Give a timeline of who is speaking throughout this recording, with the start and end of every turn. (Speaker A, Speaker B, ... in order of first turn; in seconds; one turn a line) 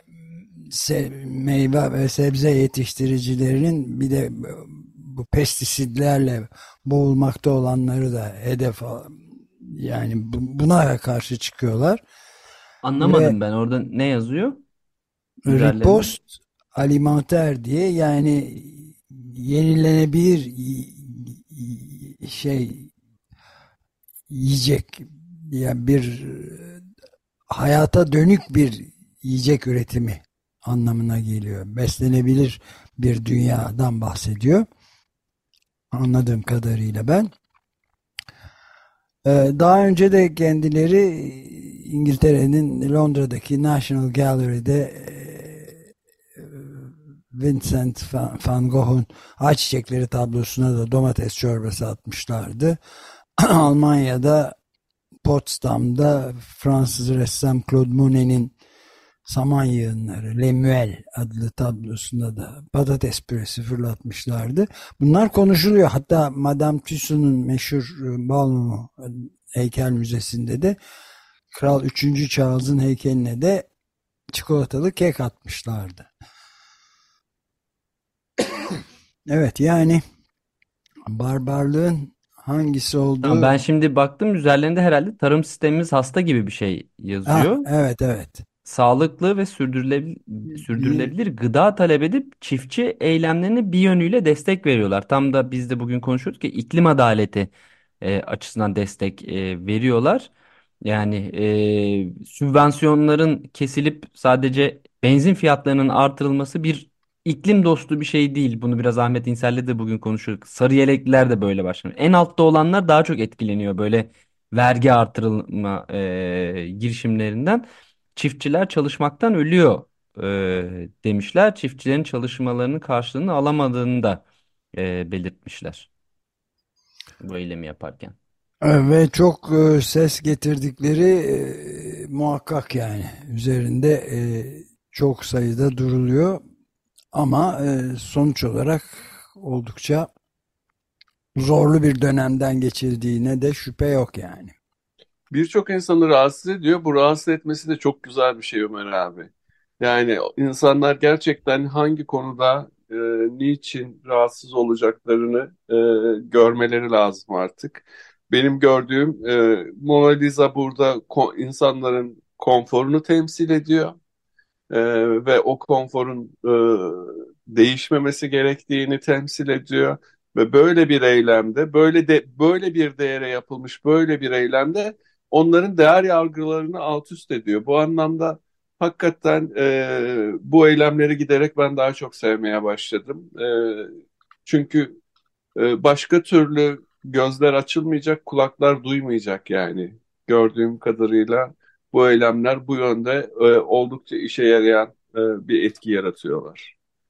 Speaker A: 0.6-12.0
Speaker B: 12.8-14.6
Speaker A: 13.0-13.3
Speaker A: 15.5-16.2
Speaker B: 15.5-16.1
Speaker A: 16.8-22.9
Speaker A: 24.3-26.8
Speaker A: 27.5-34.6
Speaker A: 35.9-37.3
Speaker A: 39.2-45.8
Speaker A: 46.4-52.8
Speaker A: 53.4-54.5
Speaker A: 55.2-58.5
Speaker A: 59.3-70.8
Speaker A: 71.5-73.7
Speaker A: 74.3-76.1
Speaker A: 79.3-80.0
Speaker A: 81.1-83.5
Speaker B: 83.2-87.7
Speaker A: 87.3-88.5
Speaker B: 88.7-97.5
Speaker A: 90.7-91.1
Speaker B: 98.0-100.3
Speaker B: 100.8-117.6
Speaker B: 118.2-124.2
Speaker B: 124.7-125.9
Speaker B: 127.2-128.2
Speaker A: 128.6-136.4
Speaker A: 137.1-140.1
Speaker A: 141.4-144.5
Speaker C: 145.3-149.3
Speaker C: 149.8-164.0
Speaker C: 164.7-183.9
Speaker C: 184.5-185.0
Speaker C: 185.6-196.7